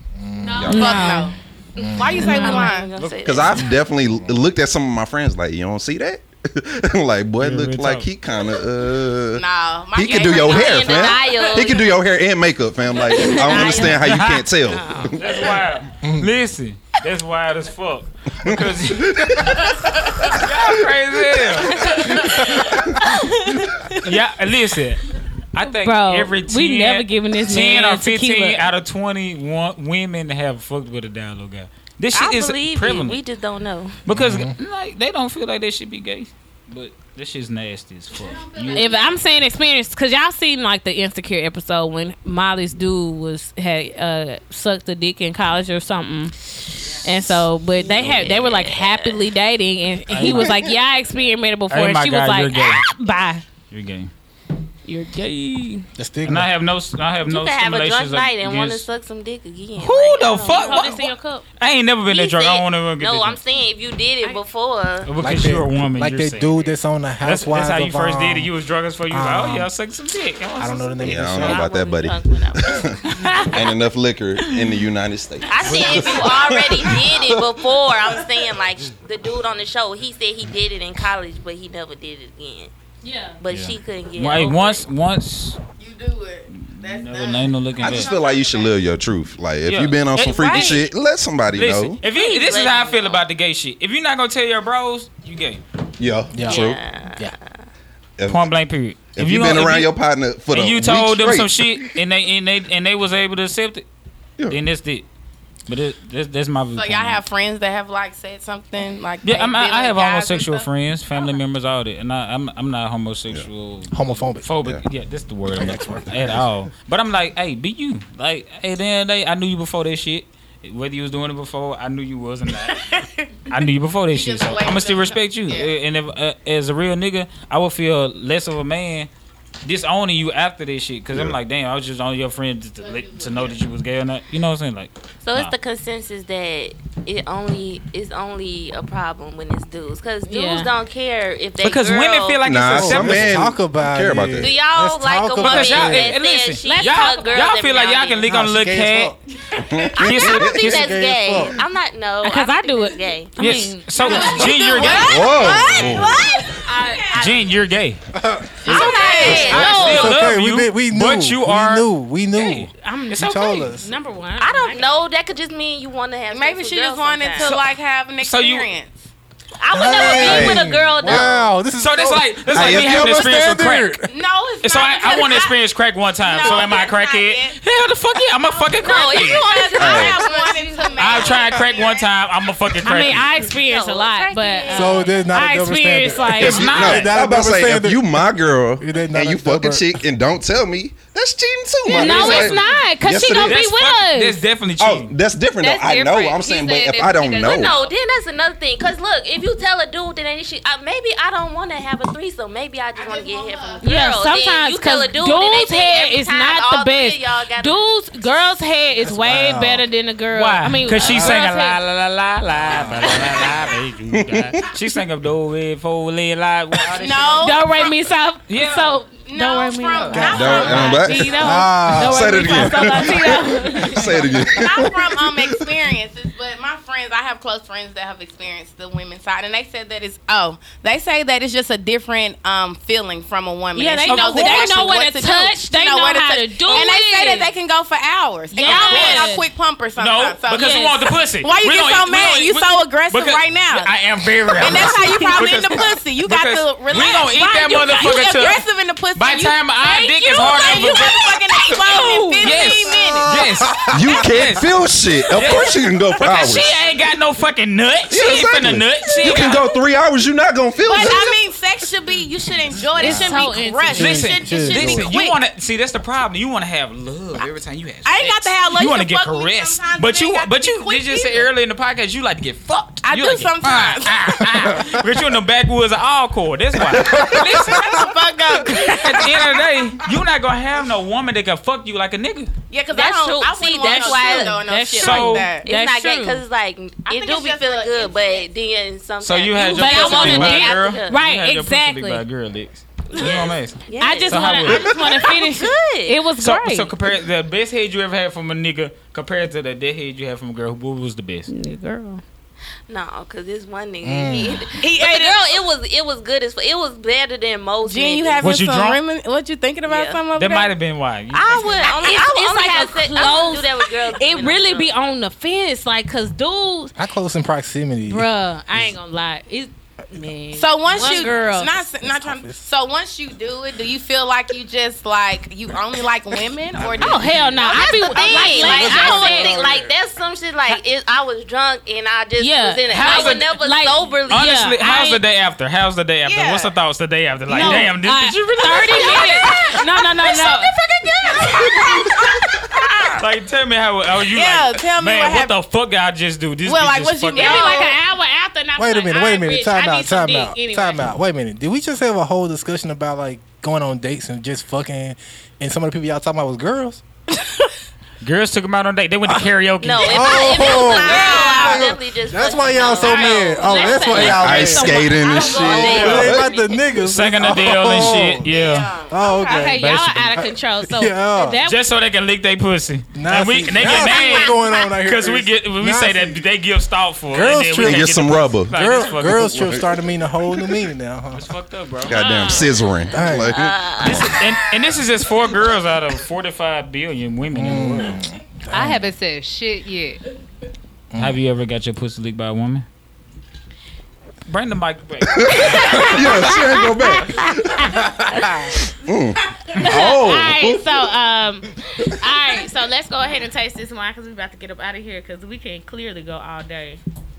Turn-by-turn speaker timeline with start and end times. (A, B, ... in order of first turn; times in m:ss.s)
0:00.2-0:00.7 A
0:00.4-0:01.3 B
0:00.5-0:01.2 C
0:00.7-0:03.0 D
0:01.8-0:02.4 A
0:02.2-0:03.8 E
0:02.2-0:02.7 B
0:03.2-0:15.5 C
0:04.0-0:04.4 A
0:07.4-0:08.1 F
0:09.4-0:11.2 D
0:10.1-0:12.0 E
0:12.9-0:14.1 E
0:13.8-0:14.5 F
0:14.6-0:15.3 E
0:15.2-0:19.5 F
0:16.0-0:16.3 A
0:18.4-0:20.5 C
0:20.3-0:22.5 F
0:21.8-0:22.5 E
0:21.8-0:24.1 B
0:24.0-0:33.2 F
0:25.6-0:28.7 B
0:32.1-0:34.0 E
0:34.1-0:38.9 F
0:34.1-0:34.6 A
0:38.2-0:39.2 G
0:38.7-0:53.4 B
0:47.8-0:49.3 E
0:50.1-0:50.6 F
0:51.7-0:52.8 F
0:53.7-0:54.1 F
0:54.9-0:55.9 B
0:56.0-0:56.5 A
0:56.2-0:58.9 F
0:57.2-1:01.1 E
0:59.8-1:03.4 F
1:00.6-1:01.4 B
1:02.1-1:05.1 E
1:05.0-1:06.6 F
1:05.2-1:08.5 A
1:07.2-1:11.2 F
1:09.1-1:09.7 A
1:10.6-1:11.6 A
1:11.0-1:17.5 C
1:11.2-1:13.3 E
1:13.1-1:13.6 B
1:15.4-1:22.7 E
1:15.7-1:16.2 F
1:23.0-1:23.4 B
1:23.4-1:24.8 E
1:23.5-1:25.6 F
1:25.8-1:28.8 D
1:26.5-1:28.1 F
1:27.8-1:32.0 C
1:29.6-1:30.9 F
1:30.3-1:30.8 E
1:31.5-1:35.6 F
1:32.0-1:33.2 E
1:36.0-1:36.8 C
1:36.3-1:37.4 A
1:36.4-1:37.7 E
1:38.2-1:38.5 C
1:38.3-1:39.9 F
1:39.2-1:42.0 C
1:40.5-1:43.8 F
1:44.5-1:45.1 F
1:45.7-1:47.2 F
1:46.8-1:50.7 D
1:49.2-2:03.0 F
1:53.9-1:54.5 A
1:55.5-1:56.5 A
1:56.1-1:56.4 C
2:02.7-2:03.3 D
2:03.5-2:09.1 F
2:04.1-2:05.7 D
2:09.6-2:15.5 F
2:12.8-2:13.6 D
2:15.2-2:22.5 E
2:20.3-2:20.7 B
2:21.6-2:23.4 F
2:22.4-2:24.6 C
2:22.6-2:26.2 A
2:24.4-2:28.2 E
2:25.4-2:29.1 F
2:26.6-2:27.5 B
2:28.2-2:29.2 A
2:29.5-2:30.7 C
2:29.9-2:31.6 A
2:30.0-2:37.4 E
2:30.0-2:30.8 F
2:32.2-2:37.3 B
2:33.4-2:35.4 F
2:34.1-2:36.4 D
2:34.5-2:36.2 C
2:35.6-2:35.9 A
2:37.2-2:38.0 F
2:38.1-2:43.9 A
2:38.6-2:40.0 D
2:38.6-2:40.2 E
2:38.7-2:43.6 F
2:38.7-2:39.8 B
2:42.8-2:44.9 B
2:44.4-2:47.6 E
2:46.3-2:49.0 D
2:47.4-2:47.7 F
2:48.2-2:48.7 F
2:49.6-2:51.5 E
2:49.7-2:54.1 A
2:49.9-2:51.3 C
2:51.7-2:54.0 F
2:52.5-2:53.5 C
2:54.1-2:55.6 D
2:54.6-2:59.6 F
2:56.2-2:57.6 D
2:58.6-3:02.1 D
2:58.7-3:01.6 E
2:59.8-3:00.2 C
3:01.0-3:03.3 F
3:02.8-3:06.9 B
3:03.4-3:05.3 E
3:04.7-3:10.0 A
3:06.4-3:13.7 C
3:06.4-3:07.2 F
3:11.9-3:14.4 B
3:11.9-3:12.7 F
3:13.4-3:15.1 F
3:14.8-3:17.7 C
3:15.6-3:17.9 G
3:17.4-3:27.9 E
3:23.0-3:23.9 D
3:23.8-3:31.8 B
3:29.0-3:29.9 A
3:30.3-3:37.6 F
3:31.0-3:31.4 A
3:32.6-3:33.5 A
3:32.7-3:33.4 C
3:34.1-3:34.5 C
3:36.9-3:37.9 D
3:37.4-3:44.4 B
3:38.5-3:39.0 F
3:39.1-3:41.6 D
3:40.1-3:40.3 E
3:40.1-3:43.2 A
3:40.2-3:45.8 C
3:44.4-4:03.9 D
3:53.7-3:57.5 B
3:54.1-3:54.9 F
3:58.5-3:59.4 B
3:58.6-3:59.4 F
4:00.0-4:08.6 F
4:00.5-4:01.0 B
4:04.5-4:13.5 D
4:04.8-4:05.4 B
4:07.3-4:08.5 B
4:09.2-4:14.7 F
4:09.8-4:13.0 B
4:13.9-4:16.8 C
4:15.3-4:19.7 F
4:18.1-4:21.4 C
4:20.8-4:25.3 D
4:22.9-4:25.2 A
4:23.0-4:24.0 B
4:24.0-4:38.1 F
4:28.0-4:31.5 D
4:33.0-4:34.8 D
4:36.9-4:37.9 A
4:37.2-4:39.6 D
4:38.7-4:42.5 F
4:42.7-4:45.7 D
4:42.9-4:44.6 E
4:44.0-4:46.4 B
4:45.0-4:45.5 F
4:45.6-4:51.2 E
4:47.1-4:48.5 D
4:49.2-4:55.0 F
4:49.7-4:52.2 B
4:53.1-4:56.2 E
4:54.0-4:56.9 B
4:56.4-5:01.5 F
5:01.5-5:02.2 B
5:02.9-5:08.5 E
5:04.0-5:04.7 A
5:04.8-5:05.6 D
5:07.8-5:10.8 D
5:08.4-5:09.0 F
5:09.9-5:10.2 E
5:10.4-5:11.9 F
5:11.3-5:14.9 E
5:11.8-5:16.9 B
5:17.0-5:18.9 A
5:18.1-5:21.8 B
5:20.5-5:29.6 D
5:22.0-5:22.6 A
5:26.7-5:27.8 A
5:27.0-5:29.5 B
5:27.6-5:35.1 E
5:28.6-5:29.9 A
5:32.4-5:35.2 B
5:32.9-5:33.5 F
5:34.3-5:39.4 F
5:36.2-5:36.7 D
5:37.5-5:40.7 B
5:37.5-5:37.9 D
5:38.7-5:41.7 E
5:38.8-5:43.2 D
5:43.2-5:47.8 F
5:44.2-5:45.6 D
5:46.6-5:48.0 D
5:47.3-5:51.0 B
5:48.8-5:57.0 A
5:58.2-6:00.7 F
5:59.3-6:08.5 A
5:59.8-6:04.4 E
6:00.8-6:01.9 B
6:02.8-6:05.8 B
6:04.1-6:06.6 C
6:05.2-6:06.8 E
6:05.8-6:06.3 F
6:07.0-6:08.9 F
6:08.3-6:09.8 D
6:09.0-6:11.6 A
6:09.2-6:11.8 B
6:09.8-6:10.2 F
6:11.6-6:19.8 F
6:13.2-6:16.5 A
6:13.9-6:14.6 B
6:17.3-6:21.5 A
6:17.8-6:20.0 C
6:21.3-6:22.6 F
6:22.0-6:24.1 C
6:22.1-6:22.8 B
6:22.2-6:22.5 E
6:23.1-6:23.6 A
6:23.5-6:24.4 E
6:24.0-6:28.2 F
6:27.5-6:29.1 A
6:28.7-6:30.2 G
6:31.1-6:31.4 A
6:31.2-6:32.9 F
6:34.5-6:36.6 F
6:35.3-6:41.0 C
6:35.7-6:38.5 B
6:39.7-6:47.0 B